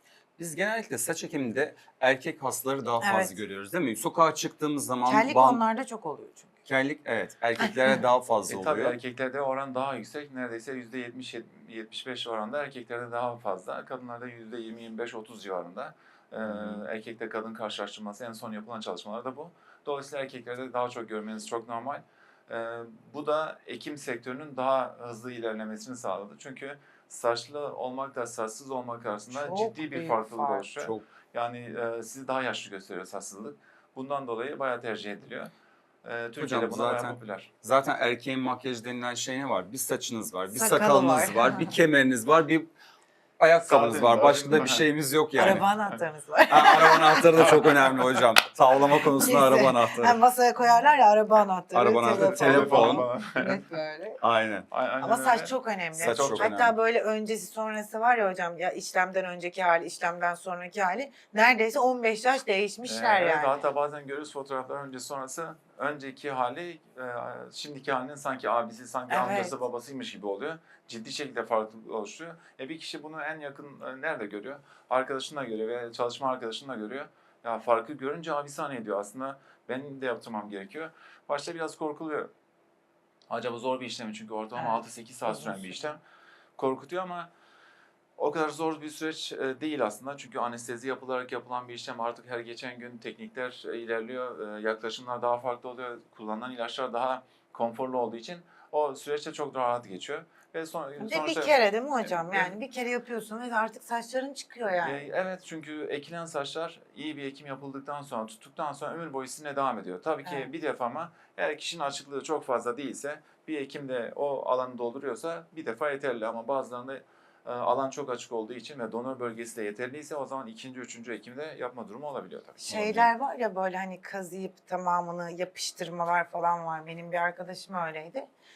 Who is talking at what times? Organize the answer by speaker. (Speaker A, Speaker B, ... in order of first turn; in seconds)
Speaker A: 0.4-5.6, 6.7-9.0, 16.4-16.9, 30.8-31.1, 36.4-42.7, 43.4-45.7, 46.5-50.2, 51.7-53.1, 54.2-54.7, 56.0-56.7
Speaker B: 3.0-3.4, 5.1-6.5, 29.3-30.7, 40.5-41.7, 45.4-47.5, 49.1-54.2, 55.0-63.6, 69.1-69.6, 84.6-85.9, 101.0-105.1, 110.2-110.5, 122.7-128.3
Speaker C: 8.5-35.5, 36.0-37.5, 43.6-44.9, 47.4-47.9, 52.1-53.6, 54.7-56.5, 62.8-82.3, 83.3-86.0, 86.6-87.3, 88.2-102.5, 104.7-123.1